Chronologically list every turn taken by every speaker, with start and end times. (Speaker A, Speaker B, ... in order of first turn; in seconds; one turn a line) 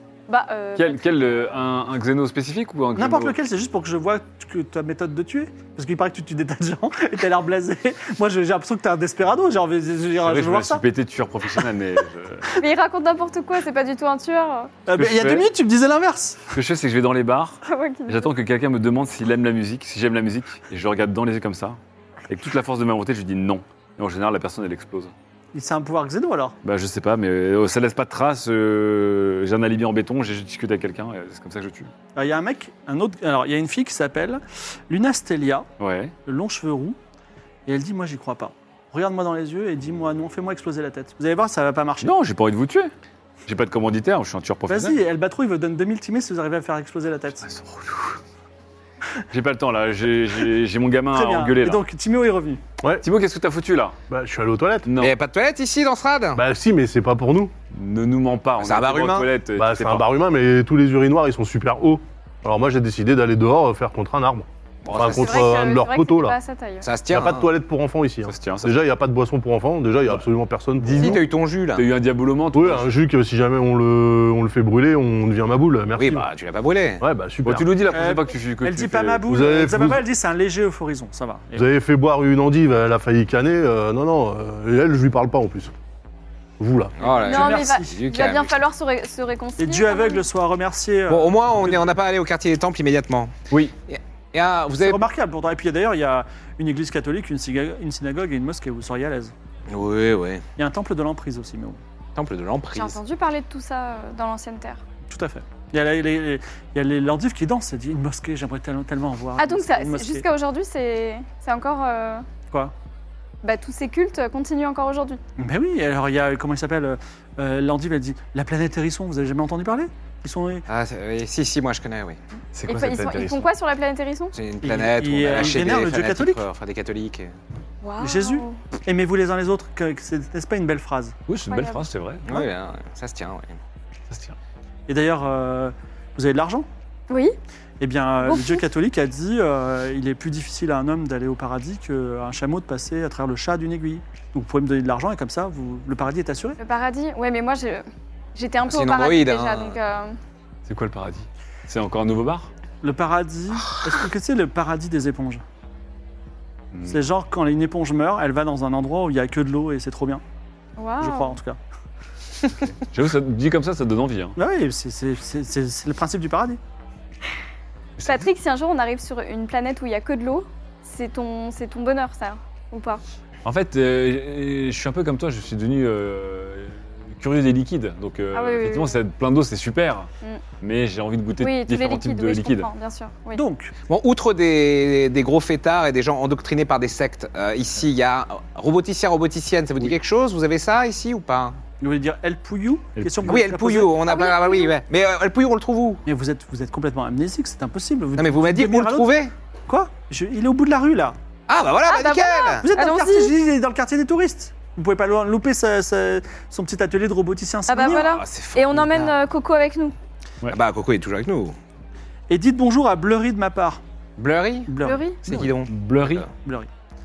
Speaker A: 0.3-1.1
Speaker B: 0.8-3.4
Speaker C: 2.9-10.8
Speaker B: 10.2-12.5
Speaker A: 12.6-14.8
Speaker C: 14.9-16.4
Speaker B: 14.9-15.5
Speaker B: 16.5-21.8
Speaker A: 17.6-18.3
Speaker B: 22.3-25.1
Speaker C: 25.5-26.5
Speaker B: 26.6-31.9
Speaker C: 32.1-35.6
Speaker B: 35.8-36.1
Speaker C: 36.2-37.0
Speaker C: 37.7-42.1
Speaker B: 42.0-42.9
Speaker B: 43.5-45.0
Speaker C: 44.7-47.5
Speaker B: 47.4-48.2
Speaker B: 49.3-51.8
Speaker C: 51.1-52.6
Speaker B: 53.0-54.0
Speaker D: 54.1-54.9
Speaker B: 54.8-55.1
Speaker E: 55.0-56.4
Speaker D: 56.3-57.5
Speaker B: 57.7-60.1
Speaker E: 58.6-59.3
Speaker D: 59.5-66.4
Speaker E: 64.8-65.3
Speaker B: 64.8-65.3
Speaker A: 65.0-66.9
Speaker E: 66.8-67.5
Speaker D: 67.1-71.2
Speaker B: 68.2-68.8
Speaker B: 70.8-72.9
Speaker E: 70.9-71.8
Speaker D: 72.5-76.3
Speaker E: 75.9-77.0
Speaker D: 77.0-77.9
Speaker B: 77.4-79.2
Speaker C: 77.9-81.7
Speaker D: 79.3-80.0
Speaker D: 81.5-85.7
Speaker D: 86.6-86.9
Speaker E: 87.0-88.6
Speaker C: 87.0-87.9
Speaker A: 87.2-90.2
Speaker C: 89.6-91.9
Speaker E: 91.1-93.3
Speaker E: 93.9-95.0
Speaker C: 94.8-99.3
Speaker E: 99.7-100.4
Speaker C: 100.6-101.8
Speaker E: 102.2-103.0
Speaker A: 102.7-104.8
Speaker C: 105.1-110.2
Speaker A: 109.4-112.3
Speaker A: 113.4-115.2
Speaker C: 115.4-120.6
Speaker E: 120.7-122.2
Speaker B: 122.5-123.5
Speaker A: 122.7-124.3
Speaker E: 124.3-127.3
Speaker C: 124.7-126.4
Speaker A: 127.8-128.6
Speaker C: 128.0-131.2
Speaker B: 131.3-132.4
Speaker A: 131.5-131.8
Speaker E: 132.2-133.6
Speaker B: 134.1-134.3
Speaker C: 134.9-136.7
Speaker A: 137.1-137.4
Speaker C: 137.8-146.6
Speaker A: 138.2-138.6
Speaker A: 146.6-147.8
Speaker A: 148.3-150.2
Speaker E: 148.7-149.8
Speaker B: 150.7-152.5
Speaker C: 152.8-155.4
Speaker B: 156.7-157.0
Speaker C: 156.9-160.2
Speaker A: 160.8-161.4
Speaker C: 161.0-161.6
Speaker B: 162.8-164.4
Speaker C: 164.3-166.6
Speaker B: 168.0-168.3
Speaker A: 168.0-173.0
Speaker B: 173.4-180.1
Speaker A: 178.3-179.0
Speaker B: 180.6-182.7
Speaker A: 181.4-183.4
Speaker C: 183.3-183.7
Speaker E: 183.9-191.6
Speaker C: 191.8-194.0
Speaker B: 192.9-193.4
Speaker E: 193.2-196.0
Speaker A: 194.0-194.7
Speaker C: 196.1-199.1
Speaker E: 198.2-199.3
Speaker C: 199.7-201.2
Speaker E: 201.5-202.7
Speaker A: 201.8-203.3
Speaker C: 202.6-208.1
Speaker A: 207.7-209.9
Speaker E: 207.7-209.2
Speaker E: 210.5-211.6
Speaker C: 212.3-213.8
Speaker E: 214.2-216.3
Speaker C: 214.7-215.1
Speaker A: 214.8-215.2
Speaker B: 215.3-216.2
Speaker C: 216.4-216.7